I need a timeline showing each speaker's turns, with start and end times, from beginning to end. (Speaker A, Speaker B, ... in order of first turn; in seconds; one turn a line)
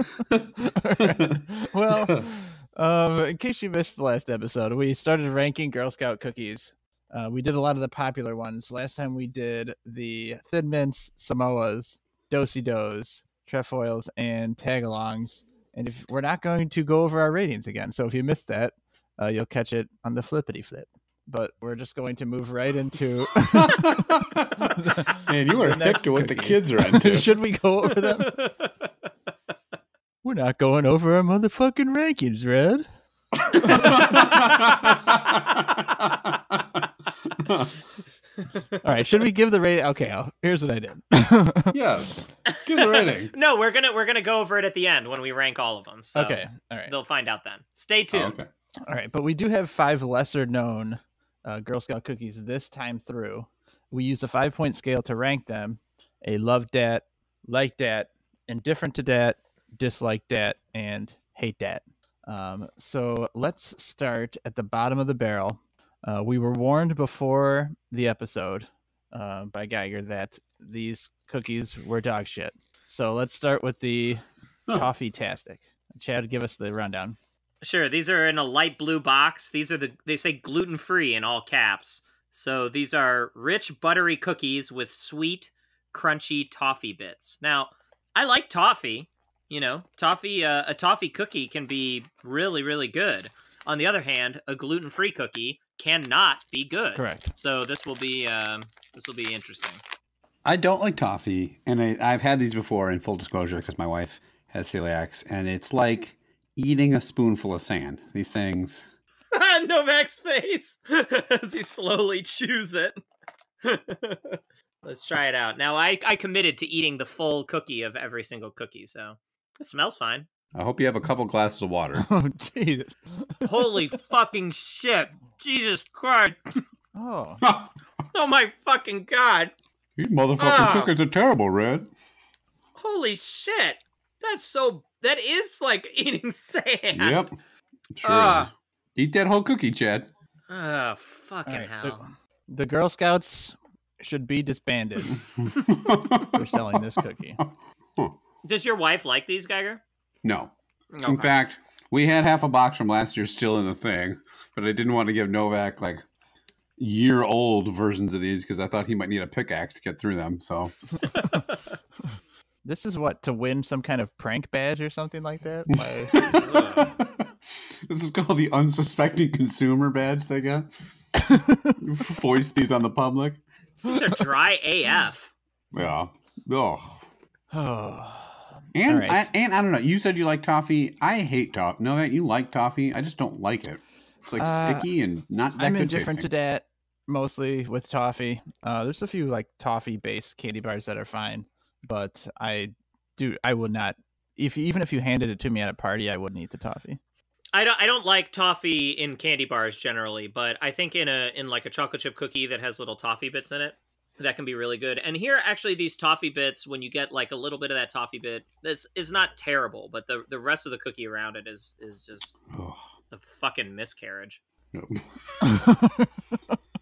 Speaker A: 0.3-2.2
Speaker B: 0.6-24.0
Speaker A: 23.4-27.4
Speaker B: 24.6-28.4
Speaker C: 28.0-28.7
Speaker B: 30.2-32.9
Speaker A: 33.4-37.8
Speaker C: 33.6-34.0
Speaker B: 33.7-34.0
Speaker C: 38.4-38.8
Speaker B: 38.8-41.8
Speaker A: 41.7-43.3
Speaker C: 42.5-48.4
Speaker B: 46.1-46.9
Speaker A: 48.1-48.5
Speaker B: 48.9-77.2
Speaker C: 77.6-99.8
Speaker B: 96.9-97.3
Speaker A: 100.4-108.9
Speaker C: 109.3-113.0
Speaker C: 113.6-120.3
Speaker A: 120.5-122.0
Speaker B: 122.0-123.8
Speaker C: 123.4-126.6
Speaker B: 126.9-127.4
Speaker A: 127.4-127.7
Speaker C: 128.1-129.5
Speaker A: 130.0-131.9
Speaker C: 130.4-130.9
Speaker C: 132.8-137.3
Speaker A: 136.9-137.3
Speaker A: 137.9-140.1
Speaker C: 138.0-138.5
Speaker C: 140.5-142.0
Speaker B: 141.5-145.2
Speaker A: 145.3-146.8
Speaker B: 146.2-147.4
Speaker A: 147.4-148.2
Speaker C: 148.4-149.8
Speaker A: 150.2-150.5
Speaker C: 150.9-151.3
Speaker A: 151.0-156.0
Speaker A: 156.8-160.8
Speaker B: 162.7-166.3
Speaker A: 165.7-170.7
Speaker C: 166.3-166.9
Speaker B: 171.2-171.7
Speaker A: 171.8-173.4
Speaker C: 173.8-175.3
Speaker A: 175.7-177.1
Speaker B: 177.5-179.2
Speaker A: 178.7-186.3
Speaker B: 184.4-184.8
Speaker B: 185.6-197.0
Speaker C: 197.5-212.4
Speaker A: 212.5-212.9
Speaker C: 213.1-214.4
Speaker A: 214.7-215.6
Speaker B: 215.4-216.1